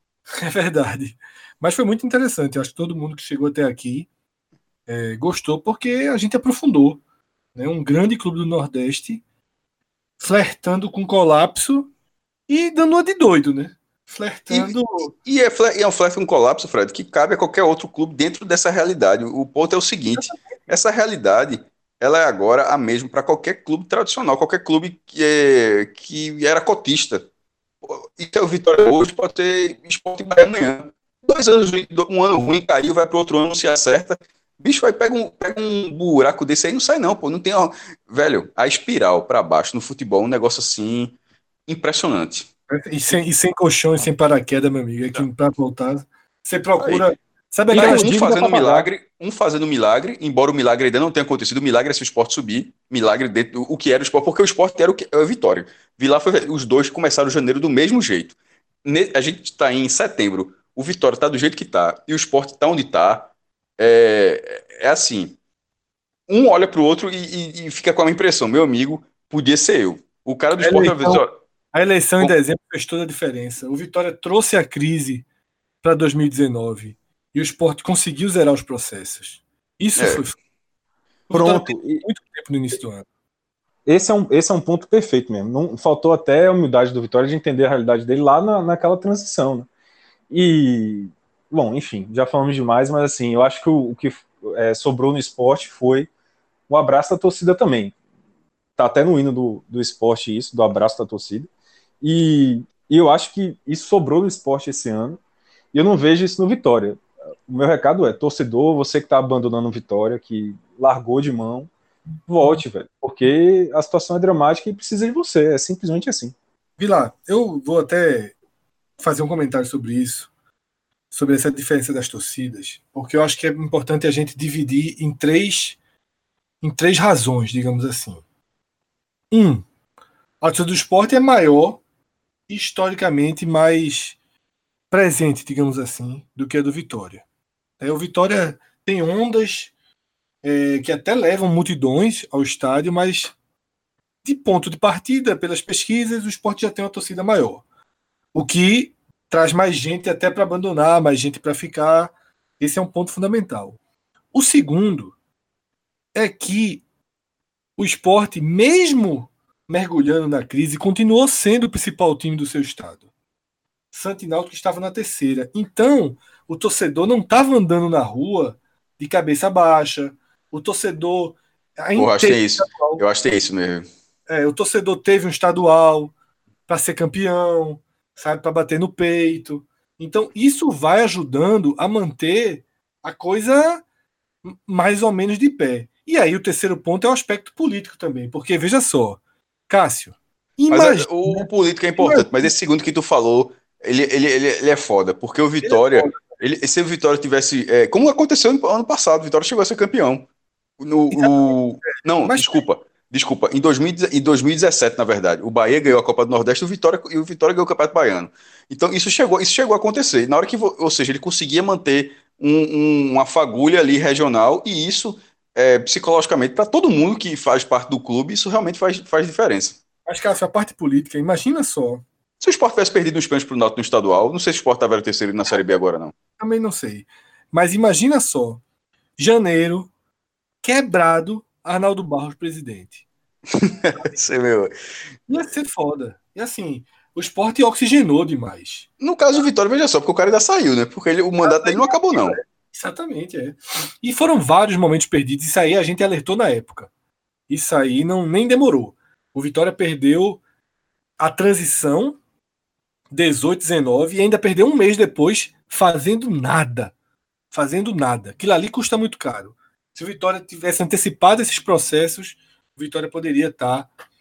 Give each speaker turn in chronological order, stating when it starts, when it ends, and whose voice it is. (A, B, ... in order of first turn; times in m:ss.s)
0:00.4-0:04.1 A
0:04.9-0:07.0 A
0:07.6-0:09.2 A
0:10.2-0:11.9 A
0:12.5-0:15.1 A
0:14.5-0:27.2 B
0:27.8-0:41.2 B
0:41.7-0:42.5 B
0:42.7-0:48.1 A
0:46.8-0:47.1 B
0:47.7-0:48.9 C
0:47.7-1:05.4 B
1:06.3-1:11.3 B
1:10.6-1:15.2 A
1:15.8-1:20.4 A
1:20.0-1:20.2 B
1:21.3-1:23.1 A
1:21.3-1:22.0 C
1:23.9-1:29.7 C
1:30.3-1:36.1 C
1:36.7-1:37.9 C
1:38.8-1:41.5 C
1:42.0-1:45.2 C
1:45.7-1:51.7 C
1:52.3-1:56.4 C
1:56.8-1:58.4 A
1:59.0-2:00.3 A
2:01.1-2:05.8 A
2:06.6-2:08.2 A
2:09.3-2:09.6 A
2:10.4-2:11.8 A
2:12.5-2:14.2 A
2:14.9-2:17.2 A
2:17.8-2:19.7 A
2:20.4-2:23.4 A
2:24.2-2:27.6 A
2:28.3-2:33.8 A
2:34.3-2:35.2 A
2:36.1-2:36.8 A
2:37.8-2:43.0 A
2:43.9-2:53.0 A
2:52.0-2:53.9 B
2:54.3-2:56.1 A
2:56.7-3:03.8 A
3:04.4-3:11.5 A
3:10.7-3:20.3 B
3:12.0-3:12.5 A
3:15.6-3:16.2 A
3:20.8-3:39.8 B
3:21.1-3:22.6 A
3:40.1-3:42.0 A
3:42.4-3:46.1 B
3:46.4-3:48.6 A
3:49.2-3:49.9 A
3:50.6-3:53.0 A
3:53.5-3:54.7 B
3:55.3-3:58.9 A
3:59.0-4:02.4 B
4:01.4-4:06.9 A
4:07.5-4:10.4 A
4:11.2-4:12.2 A
4:13.1-4:16.9 A
4:17.5-4:23.9 A